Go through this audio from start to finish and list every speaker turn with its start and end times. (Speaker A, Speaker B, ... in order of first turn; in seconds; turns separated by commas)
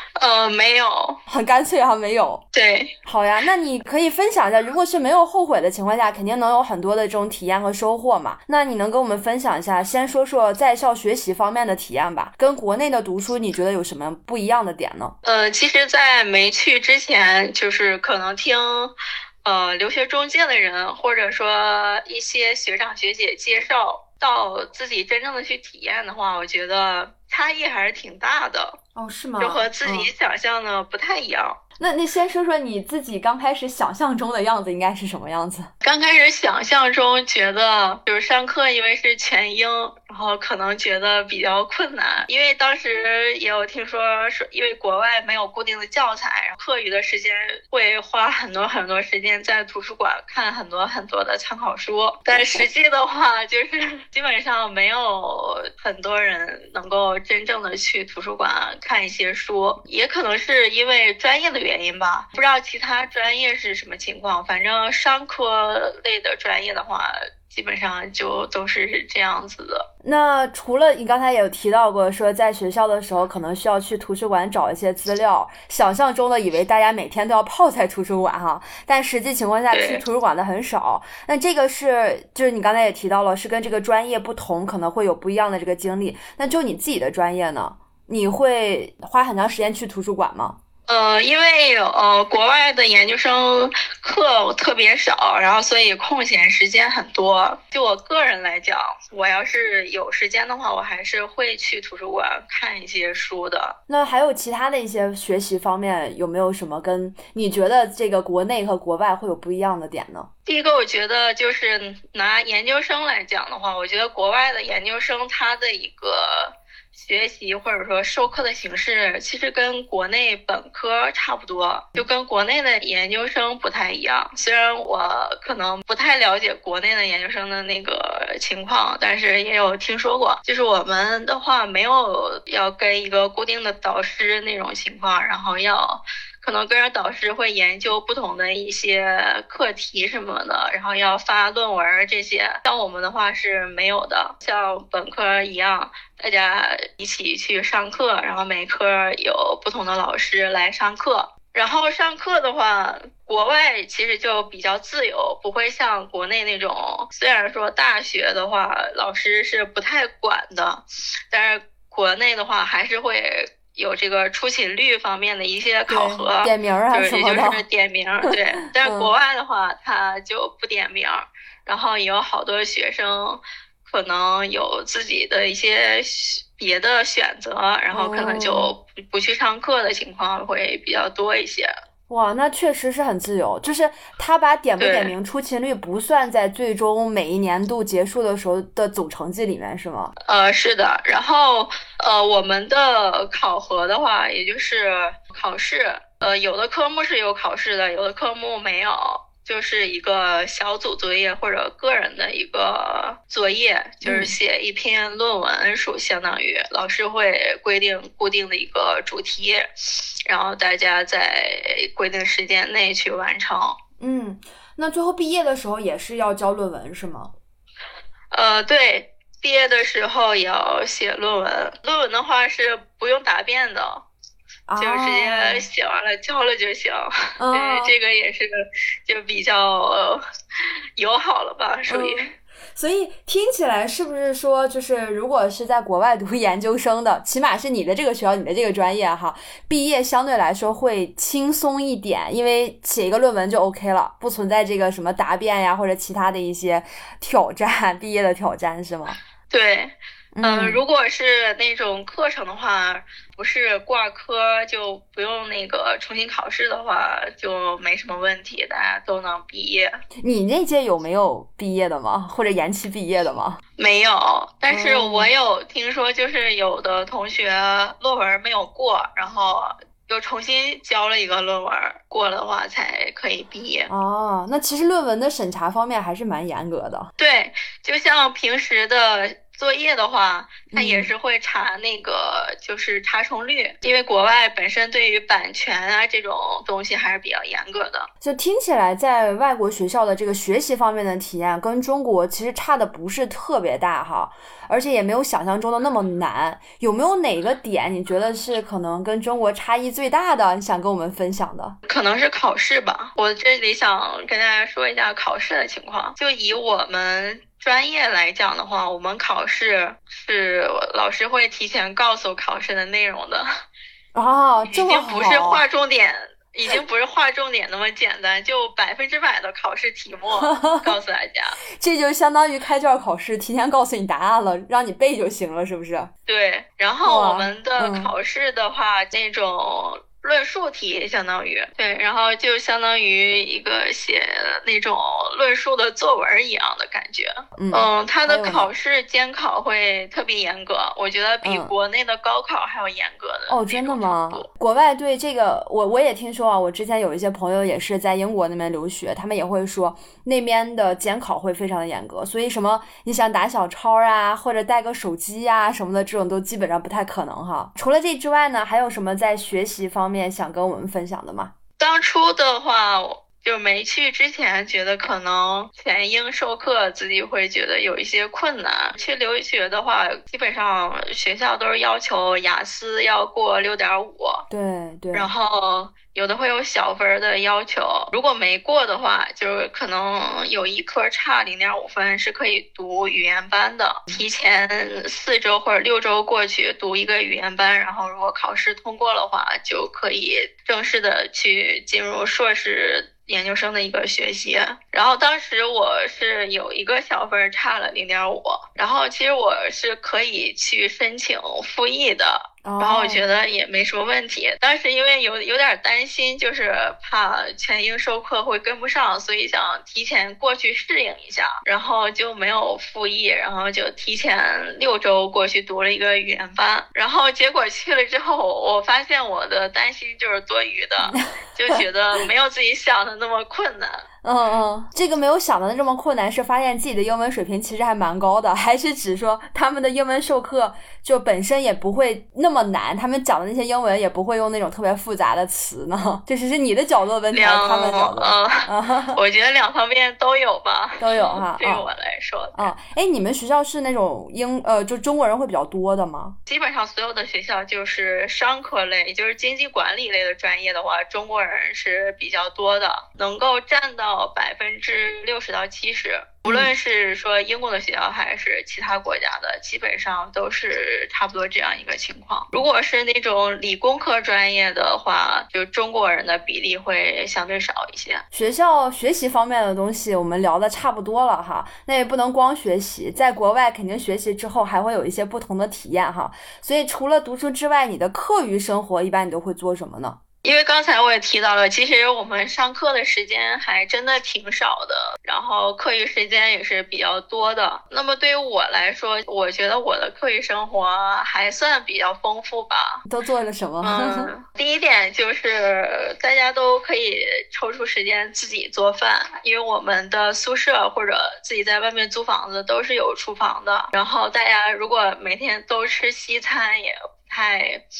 Speaker A: 0.2-1.2, Speaker B: 1.3-2.4, Speaker A: 2.5-2.9, Speaker B: 3.0-15.2, Speaker A: 15.2-18.9, Speaker A: 19.4-28.8, Speaker B: 29.0-30.1, Speaker A: 29.4-31.6, Speaker B: 31.8-35.7, Speaker A: 35.8-69.9, Speaker B: 52.3-52.6, Speaker B: 70.0-90.6, Speaker A: 79.7-80.0, Speaker A: 90.9-103.8, Speaker B: 103.9-110.3, Speaker A: 110.5-181.7, Speaker B: 165.9-167.6, Speaker B: 168.8-169.1, Speaker B: 177.9-178.7, Speaker B: 182.1-190.1, Speaker A: 184.8-185.1, Speaker A: 190.2-209.7, Speaker B: 204.0-204.3, Speaker A: 210.3-213.8, Speaker B: 214.0-217.3, Speaker A: 218.3-224.1, Speaker B: 224.7-225.7, Speaker A: 224.8-230.2, Speaker B: 227.4-227.9, Speaker A: 231.0-232.3, Speaker B: 231.9-249.2, Speaker A: 249.5-259.9, Speaker B: 250.3-250.8, Speaker B: 260.2-263.6, Speaker A: 263.8-273.9, Speaker B: 264.7-265.3, Speaker B: 273.9-277.1, Speaker A: 277.2-288.1, Speaker B: 280.7-281.1, Speaker B: 288.2-301.8, Speaker A: 301.9-313.5, Speaker B: 314.1-315.6, Speaker A: 314.6-321.6, Speaker B: 320.4-321.0, Speaker B: 321.8-326.1, Speaker A: 326.3-344.5, Speaker B: 327.1-328.1, Speaker B: 337.6-338.7, Speaker B: 341.4-341.7, Speaker B: 343.5-361.5, Speaker A: 361.8-374.5, Speaker B: 374.5-375.3, Speaker A: 375.1-424.0, Speaker B: 402.6-403.2, Speaker B: 421.1-421.8, Speaker B: 424.2-439.2, Speaker A: 437.3-442.7, Speaker B: 441.0-441.9, Speaker B: 442.6-446.4, Speaker A: 446.5-468.2, Speaker B: 456.5-456.7, Speaker B: 468.3-480.2, Speaker A: 480.4-493.0, Speaker B: 493.1-494.3, Speaker A: 493.8-507.8